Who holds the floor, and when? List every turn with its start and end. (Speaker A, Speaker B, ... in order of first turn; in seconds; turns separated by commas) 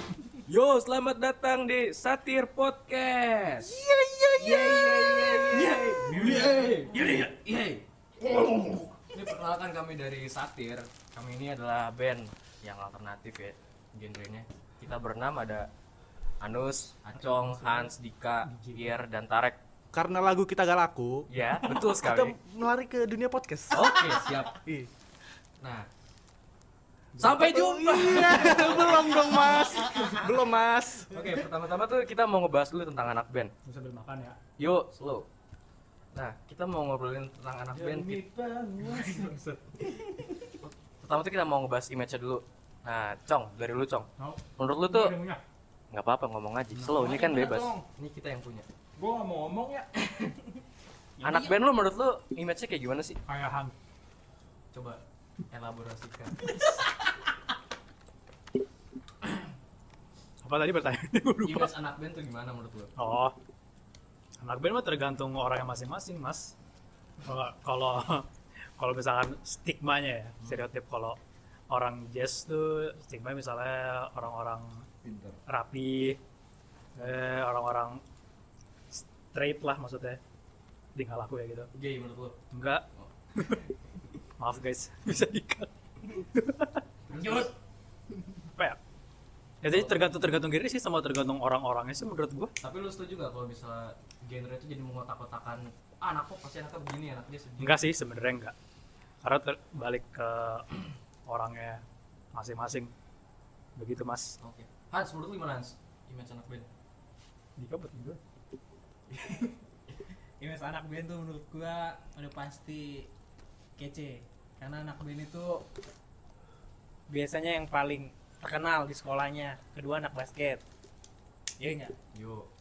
Speaker A: 0.5-3.8, Speaker B: 3.9-7.0, Speaker C: 4.4-6.6, Speaker A: 4.5-7.8, Speaker B: 8.2-9.0, Speaker A: 9.1-15.7, Speaker A: 16.4-19.6, Speaker D: 17.2-17.9, Speaker D: 18.4-19.0, Speaker E: 19.9-24.0, Speaker A: 21.3-22.4, Speaker A: 23.7-24.5, Speaker E: 24.6-24.9, Speaker A: 25.6-25.9, Speaker D: 27.2-27.4, Speaker A: 27.2-30.1, Speaker E: 27.2-31.1, Speaker B: 27.5-29.0, Speaker A: 31.1-33.5, Speaker D: 33.6-34.4, Speaker A: 34.6-35.3, Speaker A: 36.1-38.3, Speaker B: 37.7-39.4, Speaker A: 38.9-39.6, Speaker A: 40.6-45.2, Speaker D: 44.2-45.4, Speaker A: 45.9-48.7, Speaker D: 46.8-47.0, Speaker C: 46.9-47.8, Speaker B: 49.0-49.9, Speaker A: 50.0-50.4, Speaker C: 51.2-51.6, Speaker A: 51.2-53.2, Speaker D: 53.3-53.7, Speaker A: 54.7-56.5, Speaker D: 56.5-56.7, Speaker D: 60.4-61.7, Speaker A: 61.4-62.9, Speaker D: 63.0-63.4, Speaker D: 64.4-66.5, Speaker D: 67.2-68.3, Speaker D: 68.8-71.2, Speaker A: 70.4-70.7, Speaker D: 71.7-74.9, Speaker B: 75.0-75.4, Speaker D: 75.5-76.2, Speaker D: 77.0-78.0, Speaker D: 78.9-80.2, Speaker D: 81.0-81.7, Speaker A: 81.7-82.4, Speaker D: 82.5-83.7, Speaker D: 84.4-86.8, Speaker A: 87.1-87.5, Speaker C: 87.2-87.5, Speaker D: 89.6-92.5, Speaker A: 89.7-90.0, Speaker A: 92.6-97.9, Speaker D: 97.6-98.5, Speaker D: 99.2-100.7, Speaker D: 101.3-101.8, Speaker D: 102.3-102.9, Speaker D: 103.8-104.4, Speaker A: 104.4-106.7, Speaker D: 107.6-108.2, Speaker C: 110.4-113.1, Speaker C: 113.8-115.6, Speaker C: 117.1-120.6, Speaker C: 121.6-121.9, Speaker A: 122.1-122.5